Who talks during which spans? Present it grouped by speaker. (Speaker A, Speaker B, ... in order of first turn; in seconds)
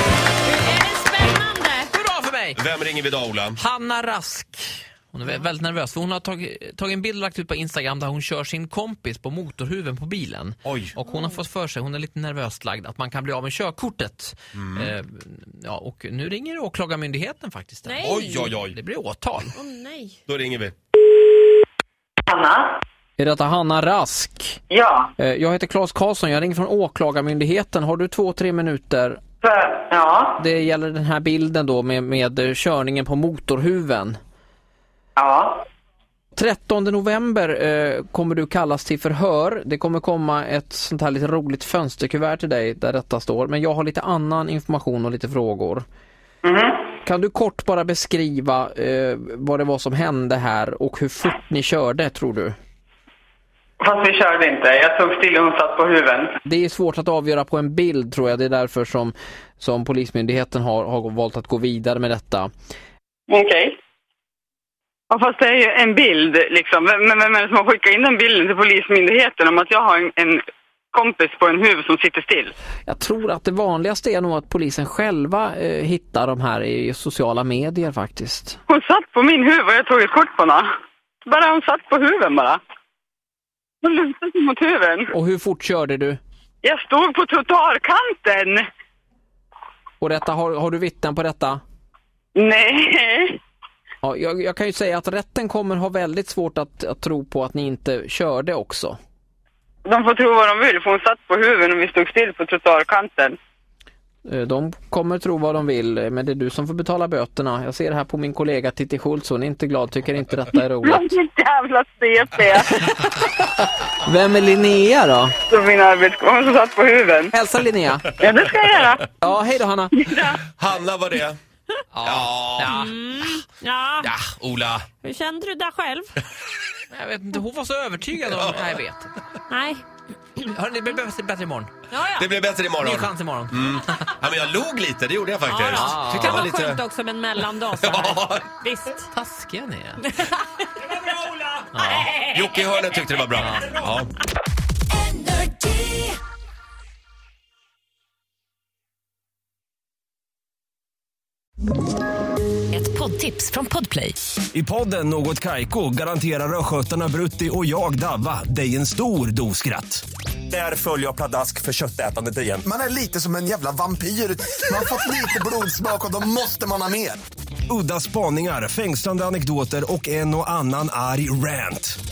Speaker A: 0.5-1.9, 17.9-18.4, 19.6-20.2, 122.7-124.1, 125.0-126.1, 129.5-129.8, 131.9-132.3, 135.5-139.1
Speaker B: 1.9-2.6, 3.6-19.5, 23.2-24.6, 25.2-29.2, 30.4-34.2, 36.4-45.9, 47.0-52.5, 56.5-62.5, 72.9-78.6, 85.1-86.2, 90.0-91.6, 94.0-99.0, 104.3-111.1, 112.8-115.3, 117.3-118.2, 119.1-120.0, 121.9-123.0, 126.9-129.1, 130.4-131.7, 132.8-133.6, 135.8-136.4, 139.1-140.0, 141.7-142.1, 143.4-143.7
Speaker C: 2.5-3.6, 10.7-11.0, 14.6-14.9, 18.0-18.8, 20.3-20.8, 120.5-121.4, 122.0-122.7, 124.0-124.9, 128.2-128.8, 132.2-136.8, 137.7-138.5, 142.1-144.1
Speaker D: 22.3-22.8, 24.7-25.1, 29.4-30.4, 35.2-35.6, 46.4-46.8, 53.8-56.3, 63.3-63.8, 65.1-70.4, 70.9-72.5, 78.7-80.7, 81.3-82.6, 83.8-85.1, 86.6-88.6, 92.4-93.4, 99.8-103.4, 110.8-112.7, 115.5-117.3, 118.2-119.2, 119.9-120.4
Speaker E: 145.2-145.9, 152.7-154.2
Speaker F: 154.5-162.6, 167.7-172.0
Speaker G: 162.6-167.2